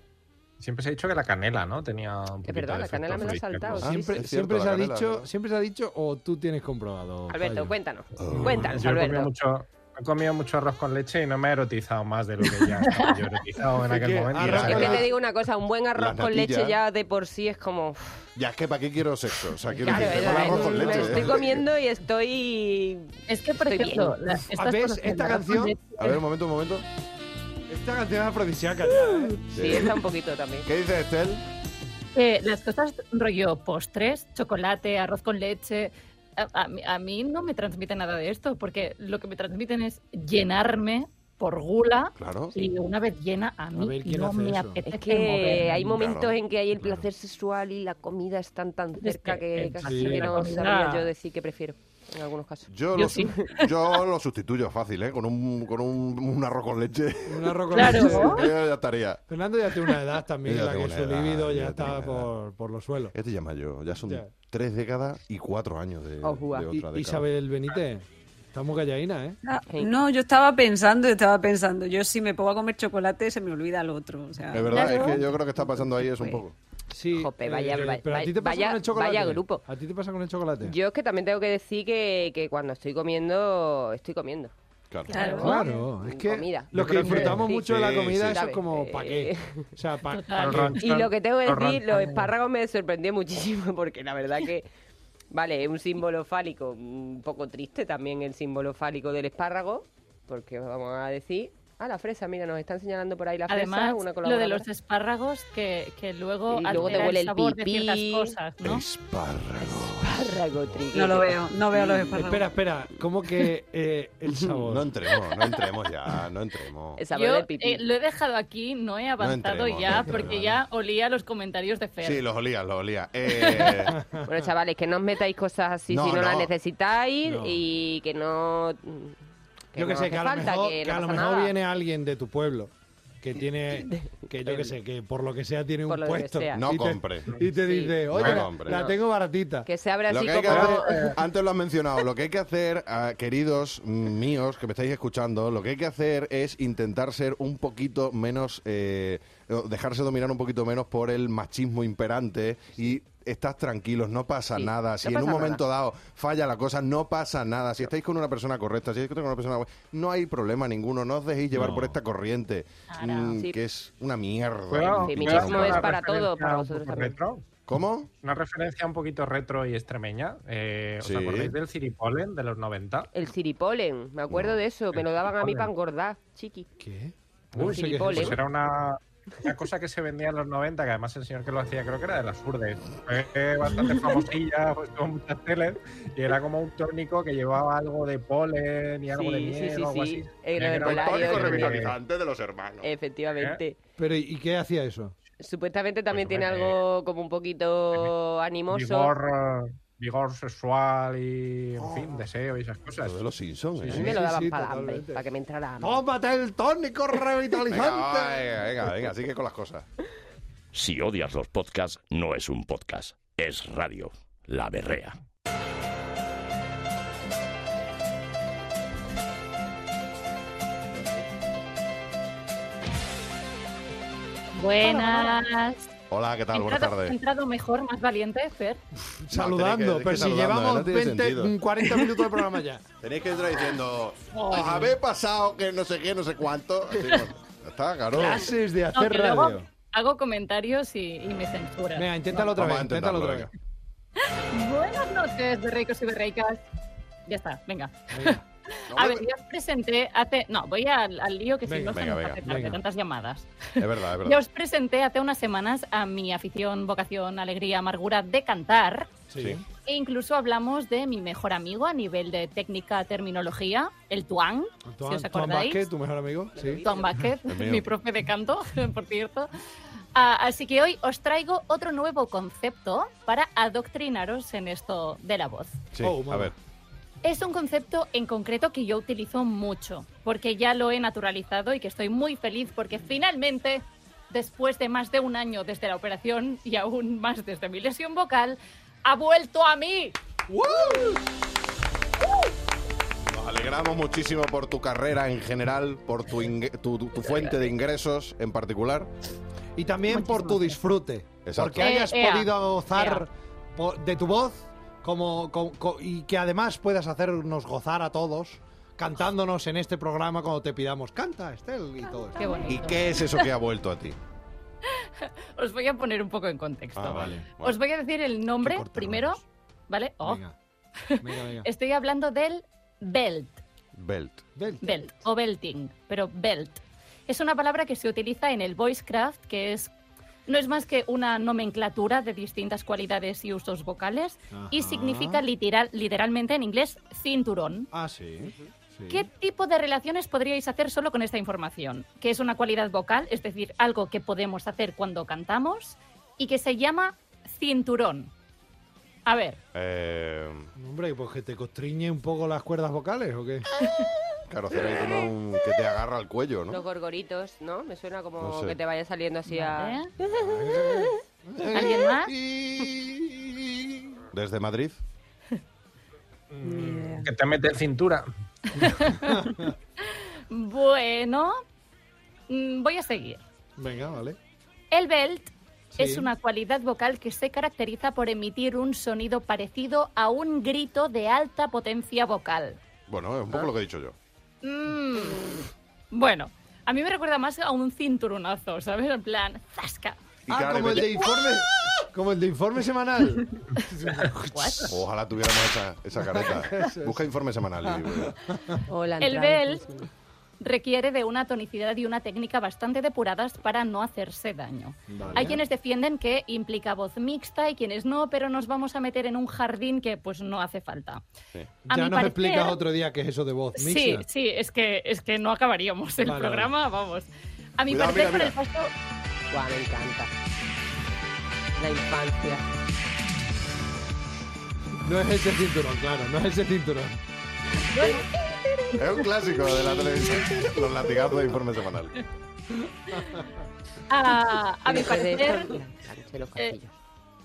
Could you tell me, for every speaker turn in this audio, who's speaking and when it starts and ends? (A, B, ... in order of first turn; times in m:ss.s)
0:00.6-0:03.9 A
0:02.4-0:04.2 B
0:03.8-0:05.2 C
0:03.8-0:07.7 D
0:07.3-0:09.3 B
0:08.2-0:08.8 C
0:08.6-0:15.0 A
0:12.8-0:13.2 E
0:13.8-0:15.1 D
0:14.3-0:15.1 C
0:14.4-0:18.2 B
0:15.9-0:16.8 C
0:18.4-0:21.6 C
0:19.8-0:24.2 B
0:19.9-0:20.7 E
0:20.2-0:21.4 D
0:23.3-0:26.2 E
0:24.5-0:25.8 D
0:26.0-0:26.8 C
0:27.7-0:29.4 D
0:29.4-0:30.7 B
0:29.5-0:29.9 C
0:30.6-0:31.4 C
0:32.1-0:45.9 E
0:42.2-0:42.6 C
0:43.7-0:44.8 D
0:44.8-0:53.9 B
0:45.8-0:47.0 C
0:49.0-0:51.1 E
0:49.8-0:50.3 D
0:52.7-0:59.2 C
0:52.9-0:53.3 E
0:57.3-0:58.4 D
0:57.7-0:58.5 E
0:59.3-1:03.1 D
0:59.9-1:02.3 C
1:03.1-1:07.2 C
1:06.2-1:06.7 B
1:06.7-1:09.4 D
1:09.4-1:15.1 F
1:14.5-1:16.5 C
1:14.7-1:15.2 B
1:16.9-1:20.7 D
1:17.1-1:19.6 B
1:20.6-1:24.5 B
1:24.9-1:25.2 C
1:25.1-1:29.7 B
1:25.1-1:25.7 F
1:25.2-1:25.7 E
1:25.4-1:30.8 D
1:27.1-1:28.4 C
1:30.1-1:30.8 E
1:30.4-1:32.3 A
1:30.7-1:34.7 B
1:35.3-1:44.7 B
1:43.5-1:48.8 E
1:46.5-1:48.4 B
1:48.6-1:50.4 C
1:49.6-1:52.1 B
1:50.9-1:52.5 F
1:52.1-1:54.9 D
1:54.7-1:57.0 C
1:57.0-1:57.8 B
1:57.1-2:02.2 E
1:59.2-2:00.4 C
2:00.0-2:00.5 D
2:02.0-2:04.0 C
2:03.3-2:03.7 E
2:03.9-2:04.3 D
2:04.1-2:09.2 B
2:05.9-2:06.5 C
2:07.2-2:07.6 D
2:09.7-2:11.5 B
2:09.8-2:12.7 D
2:13.2-2:19.7 D
2:13.9-2:14.7 B
2:15.9-2:16.7 B
2:16.5-2:17.3 C
2:17.4-2:19.0 B
2:18.1-2:18.8 C
2:19.6-2:21.2 B
2:20.1-2:46.0 C
2:20.5-2:20.8 D
2:34.5-2:35.6 B
2:41.5-2:41.9 D
2:42.9-2:43.4 E
2:44.7-2:47.4 A
2:45.0-2:47.2 B
2:47.7-2:48.1 C
2:48.2-2:53.1 A
2:51.0-2:51.6 C
2:53.1-2:56.7 B
2:54.3-2:54.6 C
2:54.9-2:55.7 A
2:56.8-2:58.4 D
2:57.5-3:12.0 A
2:57.6-2:58.4 B
3:09.1-3:11.9 B
3:10.8-3:12.9 C
3:12.8-3:13.8 B
3:14.0-3:15.1 D
3:15.4-3:19.1 B
3:16.1-3:16.8 A
3:18.7-3:23.2 A
3:21.8-3:22.2 D
3:23.0-3:24.2 C
3:23.8-3:25.2 D
3:23.9-3:26.0 B
3:25.8-3:28.4 D
3:27.7-3:29.8 C
3:30.7-3:35.2 G
3:44.6-3:45.9 E
3:44.8-3:45.3 D
3:46.1-3:47.2 C
3:46.5-3:48.8 E
3:49.1-3:52.8 D
3:49.3-3:51.5 C
3:53.0-3:58.5 C
3:54.3-3:54.9 D
3:58.1-3:59.7 D
3:58.9-4:02.5 E
4:02.0-4:03.5 D
4:02.5-4:03.5 C
4:04.2-4:06.6 E
4:07.3-4:19.2 E
4:08.1-4:08.4 D
4:08.9-4:09.2 C
4:11.6-4:12.8 D
4:11.9-4:12.5 C
4:13.8-4:14.4 C
4:19.3-4:19.6 D
4:19.8-4:25.9 E
4:24.8-4:26.8 D
4:26.6-4:27.0 B
4:26.7-4:29.5 E
4:27.4-4:27.9 C
4:30.1-4:35.9 E
4:35.9-4:36.5 C
4:36.0-4:36.5 D
4:37.2-4:50.2 E
4:50.5-4:51.2 D
4:53.3-4:59.1 C
4:59.8-5:12.6 D
5:00.1-5:00.8 E
5:01.4-5:01.9 C
5:01.8-5:03.2 E
5:12.3-5:13.4 E
5:12.7-5:14.2 C
5:15.6-5:20.4 E
5:17.0-5:17.8 C
5:17.0-5:17.6 D
5:18.6-5:19.4 D
5:20.2-5:20.5 D
5:21.1-5:23.6 E
5:21.2-5:21.7 D
5:24.0-5:24.4 C
5:24.6-5:24.9 D
5:24.8-5:29.9 E
5:30.5-5:37.9 E
5:34.5-5:35.4 D
5:37.9-5:39.3 D
5:39.1-5:48.3 E
5:49.2-5:49.6 E
5:49.7-5:50.7 C
5:50.8-5:53.7 D
5:53.8-5:54.1 E
5:54.5-5:56.8 C
5:56.7-6:01.1 B
5:58.4-5:58.8 C
5:59.5-6:00.1 E
6:00.2-6:03.9 D
6:01.7-6:02.3 E
6:04.3-6:05.0 C
6:06.5-6:08.9 A
6:06.6-6:07.3 F
6:08.7-6:09.4 E
6:09.3-6:09.7 D
6:10.1-6:11.6 E
6:12.5-6:13.4 E
6:13.8-6:14.4 D
6:14.9-6:22.8 E
6:15.9-6:16.3 D
6:23.1-6:24.2 C
6:24.6-6:30.2 E
6:30.5-6:31.3 C
6:30.5-6:35.0 D
6:34.5-6:34.9 E
6:34.9-6:38.4 C
6:36.2-6:37.2 D
6:37.9-6:38.8 D
6:38.9-6:40.1 B
6:39.2-6:39.8 E
6:40.6-6:51.2 E
6:45.1-6:45.6 D
6:51.8-6:54.2 D
6:51.9-6:52.8 E
6:53.8-6:58.9 E
6:56.2-6:56.7 D
6:57.9-6:58.6 C
6:59.5-7:00.3 B
7:01.8-7:02.6 B
7:05.0-7:07.2 D
7:07.9-7:08.2 E
7:09.0-7:12.2 C
7:13.2-7:13.4 D
7:14.1-7:15.8 E
7:14.9-7:16.9 B